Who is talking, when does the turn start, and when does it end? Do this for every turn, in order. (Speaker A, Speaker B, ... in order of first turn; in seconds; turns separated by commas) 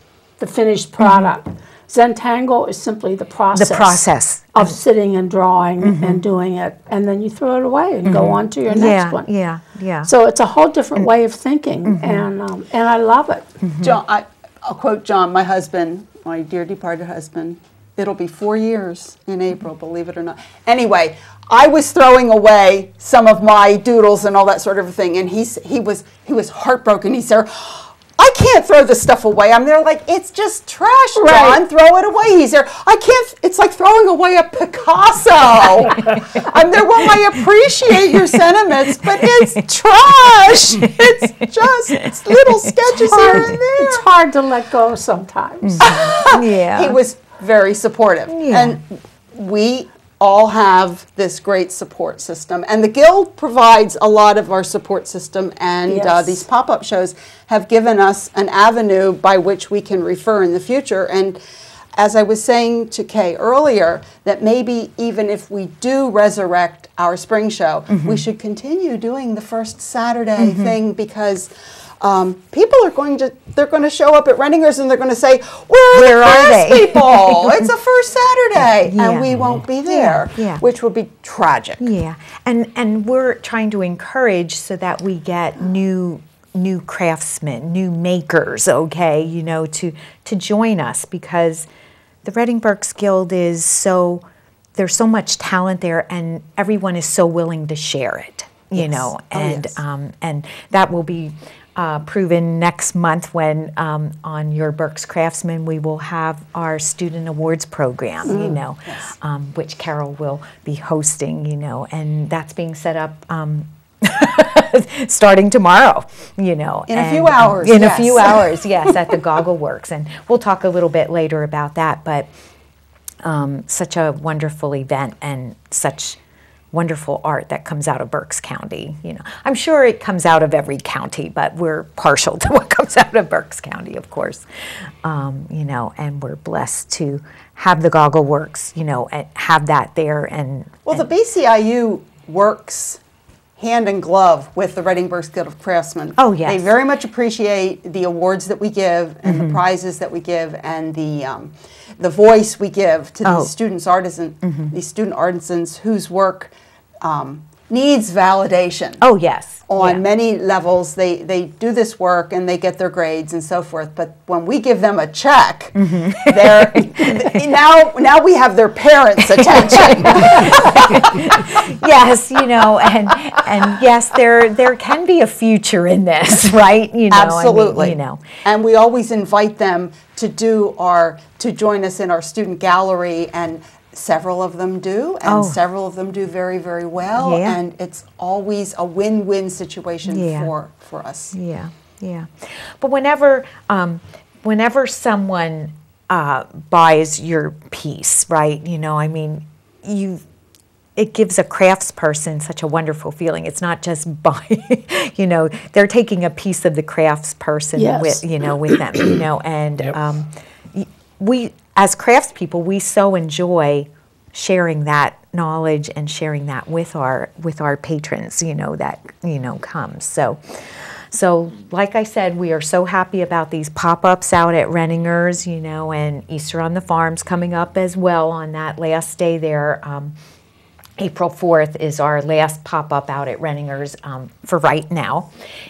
Speaker A: 0.4-9.3, Speaker B: 1.0-1.3, Speaker B: 3.5-4.7, Speaker B: 5.8-6.2, Speaker B: 8.0-10.1, Speaker A: 10.0-13.5, Speaker B: 11.8-12.3, Speaker B: 13.6-14.0, Speaker C: 13.8-44.1, Speaker A: 31.1-31.6, Speaker B: 39.0-39.5, Speaker B: 40.2-41.0, Speaker B: 42.0-43.5, Speaker A: 43.1-46.0, Speaker B: 45.6-47.0, Speaker C: 45.8-61.4, Speaker B: 48.3-48.8, Speaker A: 55.9-56.4, Speaker C: 62.0-81.8, Speaker B: 67.9-68.2, Speaker B: 70.4-70.8, Speaker B: 75.9-77.7, Speaker B: 78.6-80.6, Speaker B: 81.8-91.7, Speaker B: 92.2-94.2, Speaker B: 94.8-122.3, Speaker C: 98.8-99.8, Speaker C: 108.2-109.1, Speaker C: 116.9-119.2, Speaker B: 123.2-126.2, Speaker B: 126.7-134.4, Speaker B: 135.0-141.0, Speaker C: 140.8-143.0, Speaker C: 143.6-159.0, Speaker B: 146.2-146.7, Speaker B: 149.2-149.6, Speaker B: 153.2-153.5, Speaker B: 154.4-154.7, Speaker B: 159.0-160.0, Speaker C: 159.7-171.5, Speaker B: 165.8-167.3, Speaker B: 169.3-178.2, Speaker C: 177.1-191.3, Speaker B: 185.2-185.6, Speaker B: 187.2-187.6, Speaker B: 190.1-190.5, Speaker B: 191.3-200.2, Speaker B: 200.9-230.1, Speaker A: 207.8-208.8, Speaker B: 231.0-235.3